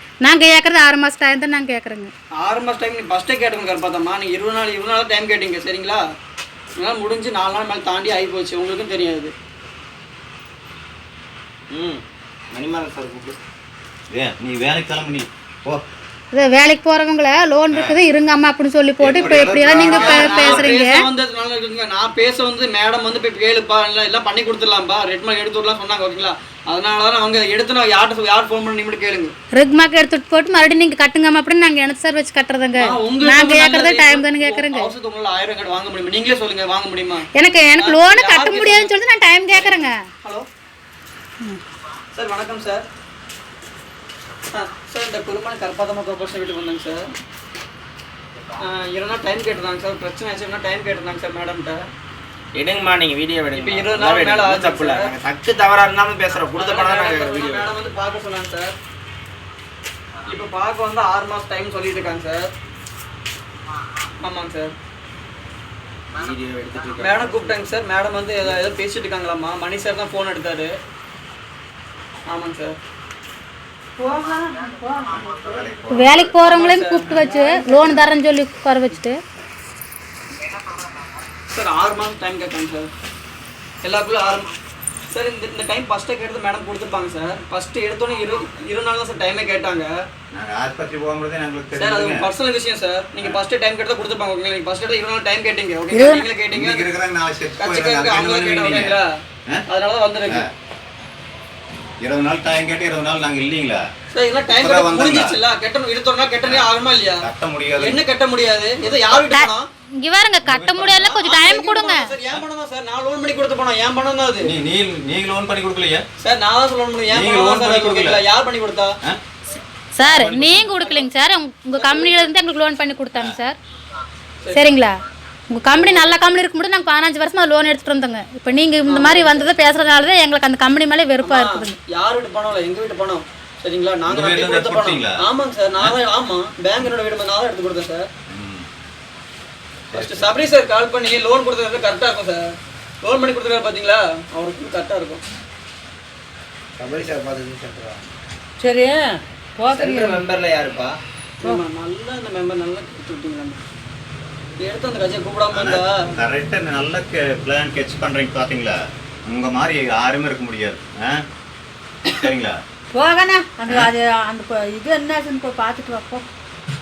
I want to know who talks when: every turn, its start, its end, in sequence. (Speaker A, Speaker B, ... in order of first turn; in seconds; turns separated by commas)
Speaker A: 0.2-2.1, Speaker B: 2.4-6.0, Speaker B: 6.8-9.3, Speaker C: 11.7-13.4, Speaker D: 14.1-15.8, Speaker A: 16.3-21.0, Speaker D: 17.7-18.0, Speaker D: 19.0-20.7, Speaker B: 19.9-29.3, Speaker A: 29.5-34.9, Speaker B: 32.8-37.3, Speaker A: 37.3-40.0, Speaker B: 37.8-38.9, Speaker B: 39.5-40.5, Speaker B: 42.1-42.9, Speaker B: 44.5-47.0, Speaker B: 48.6-51.9, Speaker C: 52.5-57.7, Speaker B: 53.5-55.1, Speaker B: 56.5-58.7, Speaker B: 60.3-62.5, Speaker B: 64.2-64.7, Speaker C: 66.1-67.6, Speaker B: 67.0-70.7, Speaker B: 72.3-72.8, Speaker E: 74.0-75.7, Speaker D: 75.1-76.3, Speaker A: 75.9-79.2, Speaker B: 76.4-77.1, Speaker E: 77.1-78.1, Speaker B: 81.5-82.9, Speaker B: 83.8-84.5, Speaker B: 85.1-89.9, Speaker D: 90.3-92.2, Speaker B: 91.8-96.8, Speaker A: 95.9-96.2, Speaker D: 96.5-99.6, Speaker B: 97.6-99.1, Speaker B: 99.7-100.4, Speaker D: 102.0-103.8, Speaker B: 104.1-107.2, Speaker D: 104.5-105.4, Speaker D: 106.4-106.7, Speaker D: 107.2-108.0, Speaker B: 107.8-109.6, Speaker D: 108.8-109.2, Speaker A: 110.0-112.1, Speaker D: 110.4-111.0, Speaker B: 110.8-114.5, Speaker D: 114.4-116.0, Speaker B: 116.2-118.9, Speaker D: 117.1-118.2, Speaker A: 119.9-123.6, Speaker D: 120.0-120.7, Speaker B: 120.4-121.1, Speaker B: 121.8-122.3, Speaker A: 124.5-125.0, Speaker A: 125.5-131.8, Speaker B: 125.7-126.1, Speaker B: 128.9-129.5, Speaker B: 131.2-138.1, Speaker D: 134.1-135.2, Speaker D: 138.3-138.7, Speaker D: 139.9-140.3, Speaker B: 139.9-142.4, Speaker B: 143.0-145.2, Speaker C: 146.8-148.0, Speaker E: 148.6-150.2, Speaker C: 149.7-151.0, Speaker B: 151.4-153.6, Speaker B: 154.6-156.1, Speaker D: 155.5-161.2, Speaker D: 162.1-162.6, Speaker E: 162.9-166.2